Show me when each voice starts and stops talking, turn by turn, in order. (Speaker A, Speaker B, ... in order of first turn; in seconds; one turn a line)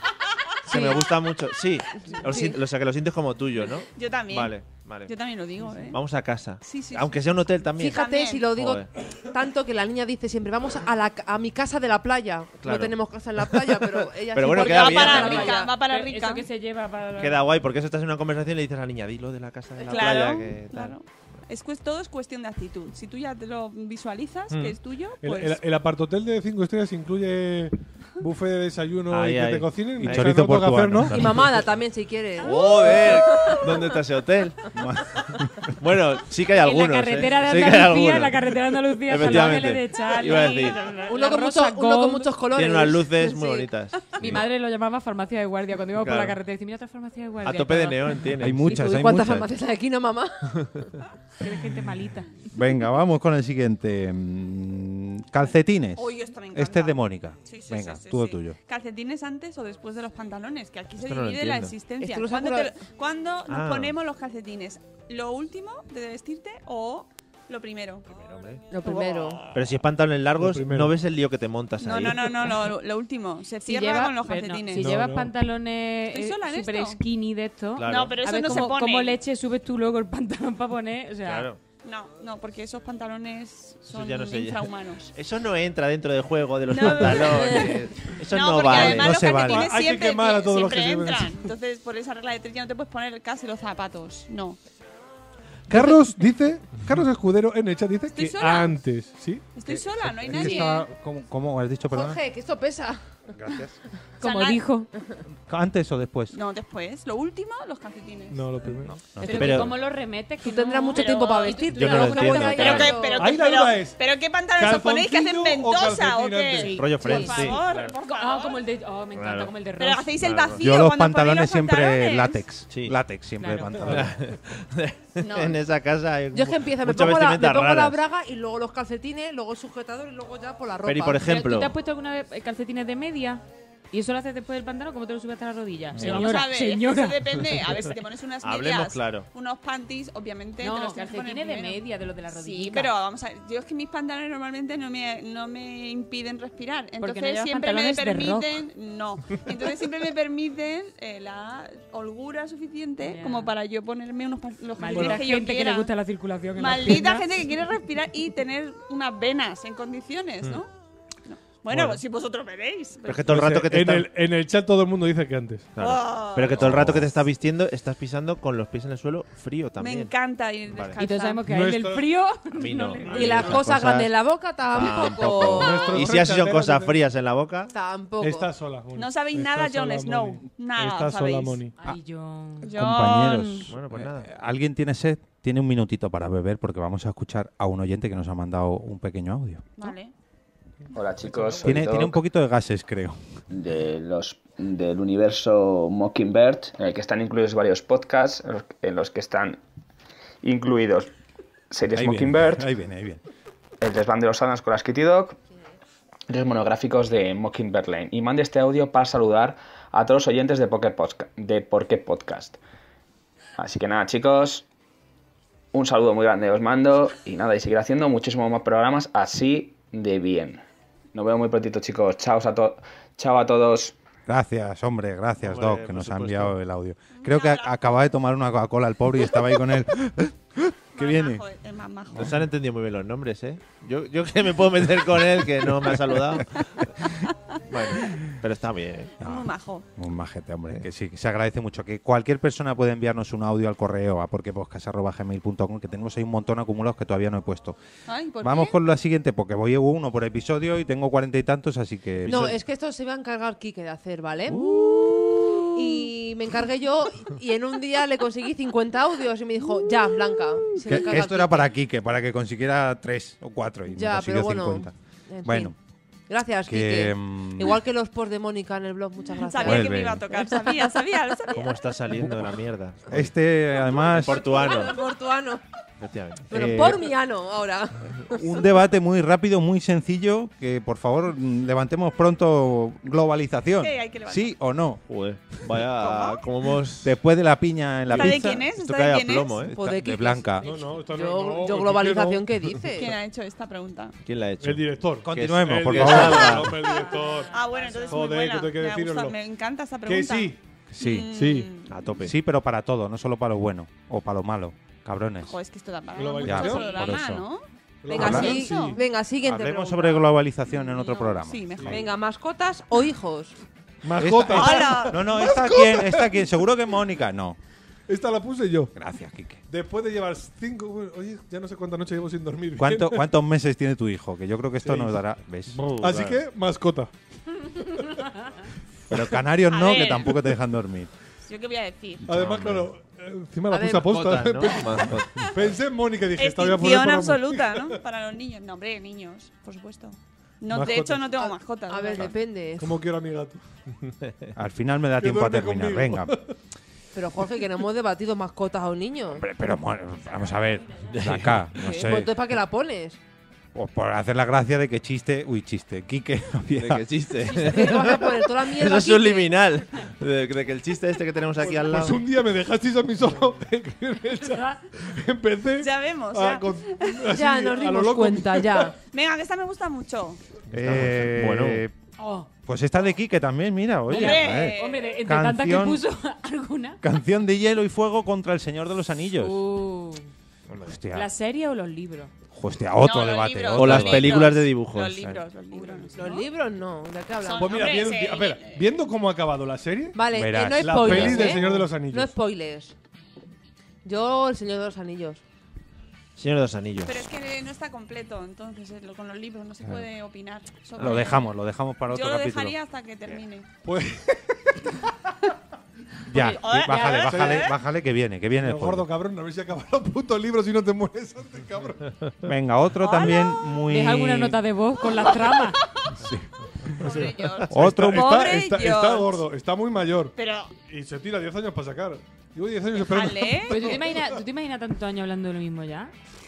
Speaker A: 0.7-5.1
Speaker B: 0.7-1.1
Speaker B: 2.1-2.6
Speaker C: 3.6-6.0
Speaker A: 5.9-8.9
Speaker C: 6.6-7.3
Speaker B: 7.8-15.7
Speaker C: 7.8-8.5
Speaker A: 12.6-12.9
Speaker A: 14.3-15.5
Speaker C: 14.5-16.5
Speaker D: 15.0-17.5
Speaker A: 17.2-21.0
Speaker B: 19.8-20.2
Speaker C: 19.9-25.6
Speaker A: 24.5-24.8
Speaker E: 25.2-31.2
Speaker A: 29.1-31.6
Speaker F: 30.0-31.1
Speaker B: 31.1-33.9
Speaker A: 32.4-34.6
Speaker F: 34.7-35.7
Speaker A: 35.8-38.4
Speaker D: 36.6-42.3
Speaker A: 39.1-40.9
Speaker B: 41.1-43.7
Speaker A: 42.5-44.5
Speaker D: 44.2-48.2
Speaker A: 45.9-46.4
Speaker A: 47.4-48.8
Speaker F: 48.4-49.5
Speaker B: 48.7-50.7
Speaker D: 51.4-52.3
Speaker F: 52.5-58.6
Speaker C: 56.0-68.1
Speaker A: 61.0-61.9
Speaker B: 62.0-62.7
Speaker A: 63.5-64.0
Speaker A: 68.1-68.6
Speaker D: 68.7-69.4
Speaker B: 68.7-69.5
Speaker A: 69.5-72.5
Speaker E: 70.4-71.0
Speaker C: 71.8-74.9
Speaker D: 73.7-81.5
Speaker E: 74.7-75.3
Speaker C: 76.1-77.0
Speaker A: 77.8-78.2
Speaker C: 77.8-79.2
Speaker A: 81.2-81.6
Speaker C: 81.8-85.1
Speaker A: 83.9-89.3
Speaker C: 86.7-87.7
Speaker C: 88.3-94.6
Speaker F: 88.7-89.7
Speaker E: 89.4-91.4
Speaker E: 95.7-99.5
Speaker D: 95.7-96.0
Speaker C: 98.1-98.8
Speaker C: 99.6-100.9
Speaker F: 99.7-102.2
Speaker D: 100.4-100.7
Speaker B: 101.9-103.0
Speaker F: 103.4-103.8
Speaker D: 104.2-104.9
Speaker C: 104.2-104.6
Speaker F: 105.5-106.4
Speaker C: 106.3-108.4
Speaker E: 108.3-109.1
Speaker F: 108.8-109.7
Speaker D: 109.2-113.0
Speaker A: 109.3-109.8
Speaker B: 110.4-113.3
Speaker C: 110.9-111.7
Speaker A: 111.7-113.0
Speaker C: 112.4-118.6
Speaker E: 113.2-114.0
Speaker E: 114.6-116.9
Speaker D: 116.6-117.4
Speaker A: 116.7-117.9
Speaker B: 117.0-117.3
Speaker D: 118.1-120.1
Speaker A: 119.1-119.5
Speaker C: 119.8-122.4
Speaker A: 120.2-120.6
Speaker F: 120.6-124.2
Speaker A: 122.7-123.0
Speaker D: 123.4-123.8
Speaker E: 123.7-124.1
Speaker A: 123.8-128.0
Speaker C: 125.2-125.6
Speaker B: 126.3-131.2
Speaker A: 130.8-131.7
Speaker D: 131.2-137.3
Speaker A: 135.9-136.4
Speaker C: 136.0-141.8
Speaker A: 138.4-139.3
Speaker D: 140.6-142.9
Speaker C: 142.3-155.9
Speaker D: 147.0-148.5
Speaker D: 153.0-153.5
Speaker D: 154.8-157.3
Speaker E: 154.9-155.2
Speaker C: 156.6-160.7
Speaker C: 161.3-163.3
Speaker E: 161.7-162.0
Speaker A: 163.1-164.1
Speaker E: 163.3-165.8
Speaker A: 165.8-170.1
Speaker C: 165.8-166.6
Speaker F: 166.6-167.1
Speaker C: 169.8-171.4
Speaker A: 170.7-171.0
Speaker D: 171.0-173.6
Speaker E: 171.4-172.1
Speaker A: 172.5-174.1
Speaker E: 173.1-173.6
Speaker B: 173.1-176.1
Speaker A: 174.7-177.7
Speaker E: 175.6-177.0
Speaker B: 177.7-178.5
Speaker E: 178.2-181.7
Speaker C: 179.0-181.6
Speaker D: 181.8-182.7
Speaker C: 182.6-183.7
Speaker F: 182.7-189.7
Speaker A: 183.7-184.3
Speaker C: 189.8-190.1
Speaker G: 190.9-192.2
Speaker E: 191.2-191.8
Speaker F: 191.6-193.3
Speaker G: 193.5-199.6
Speaker G: 200.4-201.1
Speaker G: 201.7-202.7
Speaker F: 201.9-203.2
Speaker G: 203.8-205.4
Speaker G: 206.3-212.6
Speaker G: 213.6-214.7
Speaker G: 215.7-220.6
Speaker G: 221.1-224.0
Speaker F: 224.3-231.4
Speaker A: 225.4-226.6
Speaker C: 227.1-227.9
Speaker C: 231.0-232.4
Speaker A: 232.1-236.8
Speaker A: 237.7-239.2
Speaker C: 239.2-239.8
Speaker F: 239.2-247.8
Speaker C: 248.1-248.8
Speaker F: 248.4-252.6
Speaker B: 252.3-261.7
Speaker F: 260.9-264.9
Speaker B: 263.9-265.7
Speaker F: 265.4-265.8
Speaker B: 266.3-270.8
Speaker F: 266.7-267.8
Speaker C: 269.4-271.7
Speaker F: 269.6-270.2
Speaker A: 271.5-273.3
Speaker F: 273.1-274.5
Speaker A: 274.1-275.0
Speaker B: 274.4-275.6
Speaker A: 276.0-276.5
Speaker B: 276.5-278.7
Speaker F: 276.5-277.1
Speaker F: 278.3-285.0
Speaker C: 283.8-284.5
Speaker A: 285.1-287.2
Speaker C: 286.0-286.4
Speaker F: 287.0-288.7
Speaker C: 288.1-289.6
Speaker A: 288.1-289.8
Speaker F: 289.7-290.7
Speaker B: 289.7-293.1
Speaker E: 290.6-292.6
Speaker C: 292.9-294.2
Speaker A: 294.2-296.8
Speaker E: 294.6-299.4
Speaker F: 295.2-296.7
Speaker C: 296.8-301.9
Speaker D: 297.9-298.1
Speaker E: 300.1-300.6
Speaker F: 300.9-301.3
Speaker E: 301.3-301.7
Speaker A: 301.9-302.3
Speaker F: 302.2-305.6
Speaker C: 305.5-309.0
Speaker E: 306.1-307.2
Speaker F: 306.4-307.5
Speaker E: 308.0-309.0
Speaker B: 308.1-310.3
Speaker F: 308.2-308.5
Speaker F: 309.4-312.0
Speaker C: 310.7-312.0
Speaker B: 311.9-313.6
Speaker E: 314.0-316.5
Speaker F: 314.2-317.6
Speaker C: 314.5-315.2
Speaker E: 318.1-318.9
Speaker F: 319.0-319.6
Speaker E: 319.7-323.2
Speaker F: 322.8-325.8
Speaker E: 324.9-325.2
Speaker A: 325.7-326.4
Speaker E: 326.0-327.1
Speaker F: 329.1-331.1
Speaker C: 329.7-330.4
Speaker C: 331.5-332.2
Speaker E: 332.3-338.0
Speaker F: 332.3-332.8
Speaker A: 332.4-332.8
Speaker B: 333.7-334.1
Speaker A: 334.0-335.8
Speaker C: 336.4-342.4
Speaker E: 340.7-341.3
Speaker B: 341.4-343.0
Speaker E: 342.8-343.6
Speaker F: 344.6-346.3
Speaker E: 345.2-346.5
Speaker B: 347.1-349.4
Speaker F: 349.3-352.3
Speaker A: 351.1-351.7
Speaker B: 351.8-353.2
Speaker F: 353.7-357.1
Speaker A: 356.8-362.2
Speaker B: 357.5-359.6
Speaker E: 361.6-368.9
Speaker D: 364.4-364.8
Speaker C: 365.8-367.3
Speaker B: 367.3-368.9
Speaker C: 369.1-370.4
Speaker A: 370.7-371.8
Speaker F: 370.7-371.9
Speaker D: 372.2-372.5
Speaker F: 372.7-376.0
Speaker D: 374.1-377.0
Speaker C: 374.1-375.1
Speaker F: 377.0-379.6
Speaker D: 379.4-380.3
Speaker A: 380.7-381.0
Speaker F: 380.9-381.3
Speaker D: 381.1-382.3
Speaker F: 382.5-384.5
Speaker C: 383.0-386.4
Speaker A: 383.7-385.2
Speaker D: 385.7-386.4
Speaker B: 386.2-388.1
Speaker C: 387.4-388.8
Speaker E: 387.6-390.2
Speaker B: 390.1-392.9
Speaker F: 390.3-391.6
Speaker E: 390.8-392.3
Speaker B: 394.1-395.4
Speaker A: 396.4-397.3
Speaker C: 397.1-401.5
Speaker F: 401.0-402.8
Speaker C: 402.1-403.7
Speaker E: 403.9-404.9
Speaker F: 406.3-409.1
Speaker C: 406.4-407.8
Speaker D: 406.7-407.3
Speaker E: 407.3-407.7
Speaker E: 408.6-412.1
Speaker F: 412.5-414.6
Speaker C: 413.0-413.7
Speaker D: 413.9-415.8
Speaker E: 417.0-420.3
Speaker C: 417.0-419.4
Speaker F: 417.7-418.4
Speaker C: 420.4-420.7
Speaker E: 420.9-424.4
Speaker C: 423.0-424.0
Speaker D: 423.7-426.1